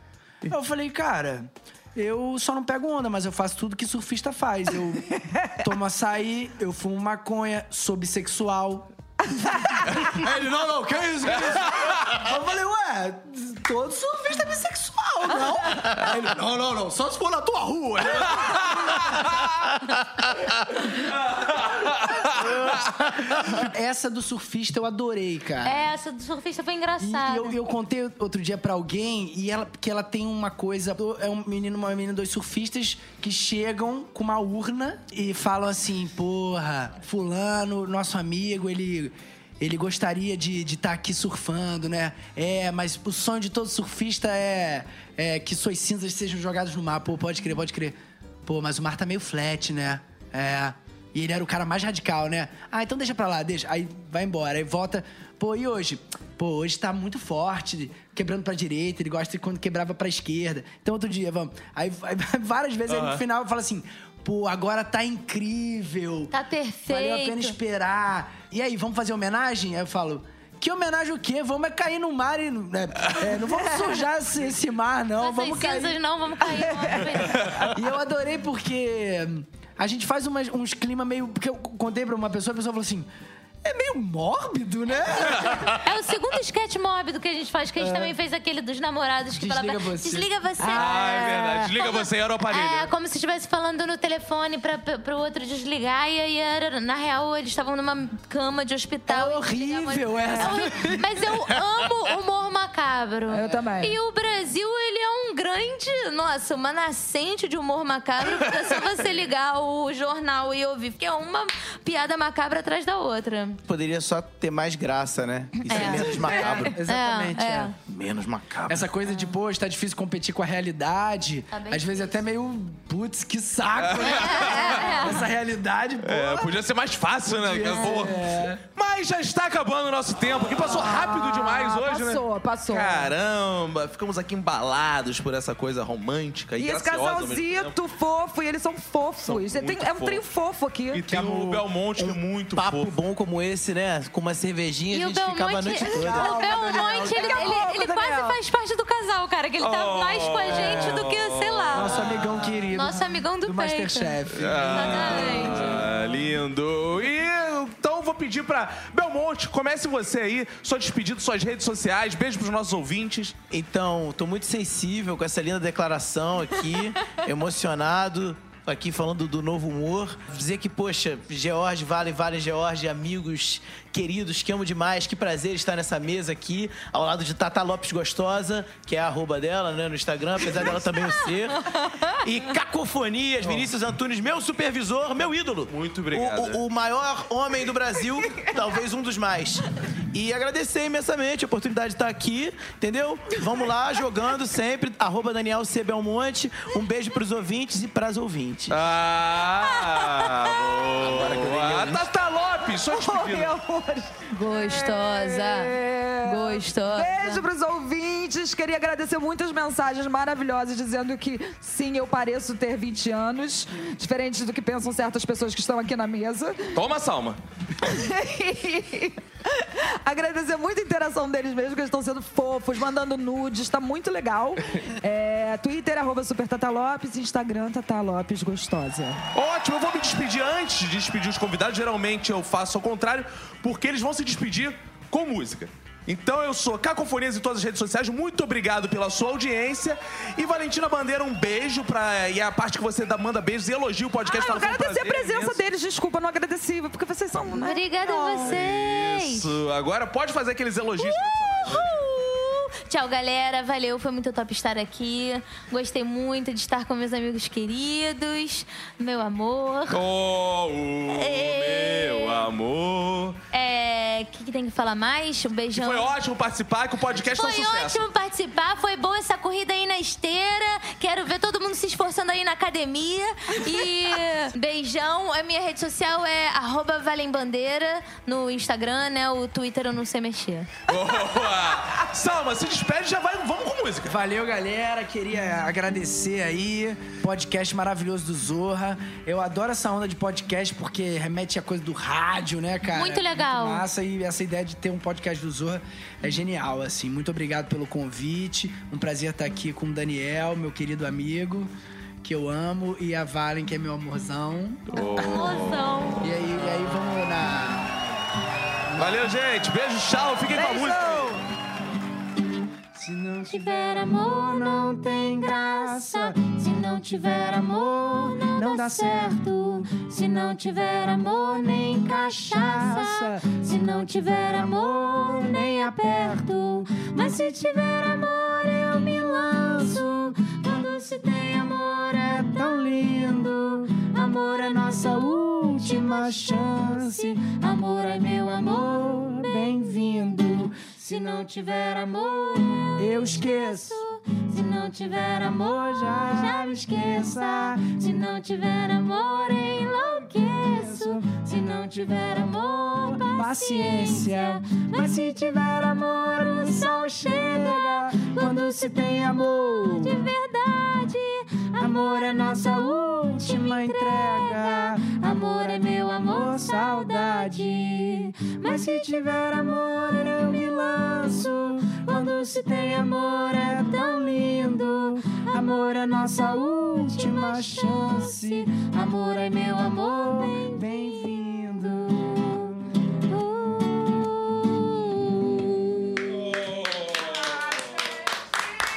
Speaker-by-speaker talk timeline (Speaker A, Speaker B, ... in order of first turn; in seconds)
Speaker A: 0.4-8.9, 9.5-19.3, 22.3-25.8, 27.0-66.3, 66.9-76.0, 77.0-83.1, 83.6-85.8, 87.8-88.2, 89.3-90.3, 99.1-101.3, 115.7-117.7, 118.7-126.5, 127.3-128.6, 145.9-147.3, 151.7-155.8, 284.1-301.7, 302.2-305.0, 306.2-307.9, 312.9-341.9, 342.9-344.0, 345.3-348.0, 350.6-351.5, 353.0-360.3, 361.8-383.0
Speaker B: 9.4-10.0, 90.6-91.5, 100.3-100.6, 103.3-104.0, 130.6-133.1, 136.6-141.1, 146.0-148.4, 200.0-200.3, 202.9-216.8, 217.8-229.2, 244.2-248.6, 310.5-311.4
Speaker C: 11.4-12.0, 18.0-19.6, 21.1-22.4, 62.9-63.2, 90.7-92.9, 123.8-124.9, 126.0-137.8, 139.2-140.2, 140.9-142.9, 149.6-152.5, 154.3-163.3, 183.4-183.7, 185.7-186.6, 198.7-203.6, 216.7-217.4, 229.3-245.6, 248.4-252.0, 259.9-263.4, 265.7-268.0, 280.9-284.1, 304.9-306.1, 308.9-311.4, 386.4-388.0
Speaker D: 25.6-27.6, 66.3-67.5, 75.2-77.6, 84.9-113.6, 115.6-117.7, 121.5-122.2, 124.0-125.3, 144.9-152.1, 152.7-155.8, 204.3-207.4, 247.5-249.5, 251.0-260.0, 261.1-262.4, 263.5-266.1, 267.1-280.8, 292.9-293.8, 305.0-306.2, 313.4-329.6, 330.3-332.2, 334.1-339.7, 341.0-355.5, 356.5-369.2, 370.4-370.6, 372.0-373.2, 373.7-374.6, 375.3-375.8, 376.3-380.9, 383.2-386.4
Speaker E: 113.7-116.8, 117.8-118.8, 141.1-147.2, 163.5-198.8, 201.0-202.1